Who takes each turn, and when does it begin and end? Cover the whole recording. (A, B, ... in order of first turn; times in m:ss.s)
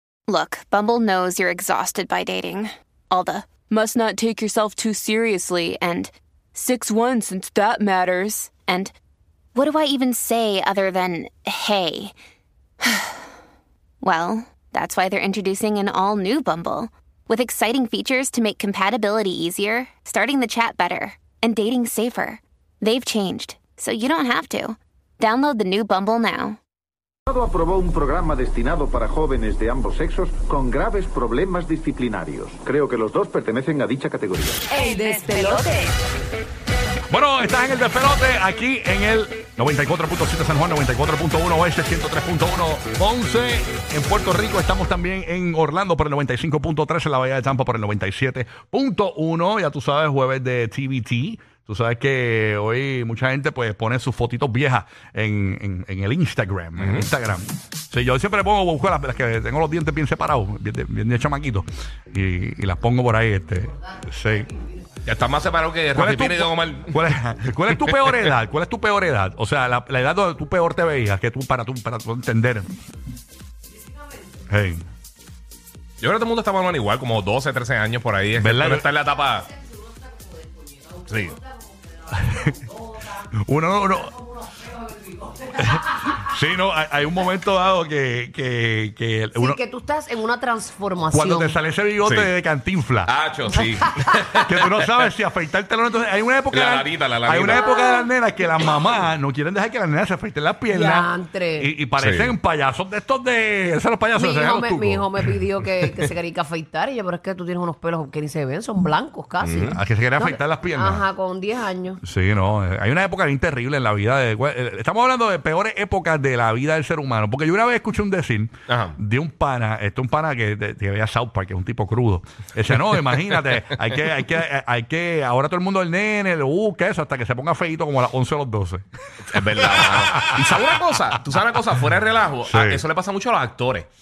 0:00.3-0:08.9 A
0:09.6-0:12.1 A
0:14.0-0:26.6 A
0:27.3-0:34.6 B
0:34.7-0:35.7 C
0:37.1-1:04.5 D
0:56.8-0:57.1 E
1:05.0-1:07.0 E
1:05.9-1:12.7 D
1:07.8-1:08.3 E
1:14.5-1:14.8 D
1:16.0-1:19.5 E
1:18.4-1:18.9 D
1:19.4-1:23.2 C
1:21.1-1:21.4 E
1:23.3-1:24.2 D
1:24.1-1:26.2 C
1:25.6-1:29.6 D
1:29.4-1:31.6 C
1:31.1-1:33.1 D
1:32.0-1:32.3 E
1:33.0-1:34.8 E
1:33.7-1:34.1 C
1:34.4-1:45.2 D
1:36.5-1:37.7 E
1:37.5-1:38.1 C
1:40.7-1:41.7 C
1:42.0-1:42.3 E
1:44.2-1:52.0 C
1:49.4-1:49.8 E
1:49.7-1:51.0 D
1:52.0-2:08.8 D
1:58.7-1:59.0 E
2:09.3-2:13.9 E
2:09.6-2:10.4 D
2:12.4-2:12.8 D